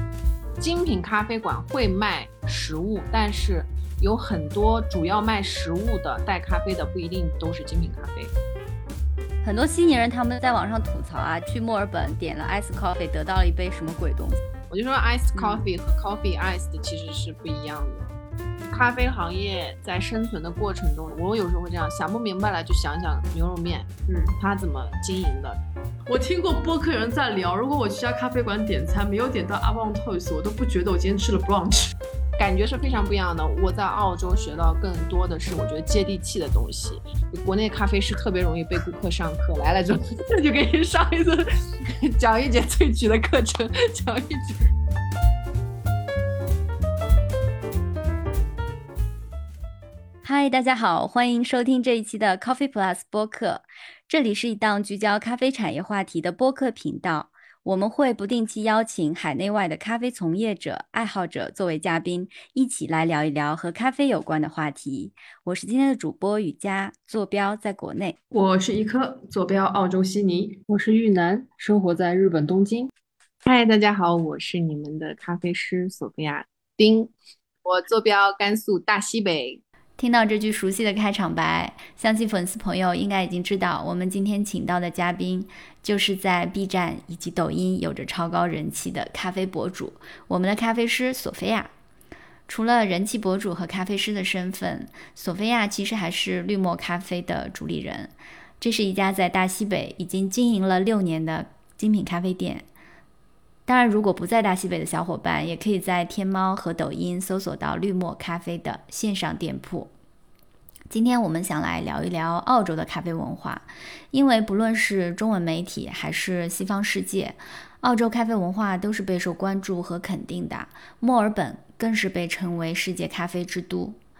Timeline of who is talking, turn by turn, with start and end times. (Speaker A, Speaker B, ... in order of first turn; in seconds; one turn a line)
Speaker A: 0.6-8.3
Speaker B: 9.4-14.4
Speaker A: 14.7-18.1
Speaker B: 15.4-15.6
Speaker A: 18.7-25.6
Speaker C: 24.1-24.3
Speaker C: 26.1-31.9
Speaker A: 32.4-41.4
Speaker A: 42.0-44.6
Speaker B: 50.2-68.2
Speaker C: 68.3-70.6
Speaker D: 70.7-72.9
Speaker A: 73.4-77.1
Speaker A: 77.6-79.6
Speaker B: 80.0-91.7
Speaker B: 92.5-102.7
Speaker B: 103.7-109.9
Speaker B: 110.9-124.0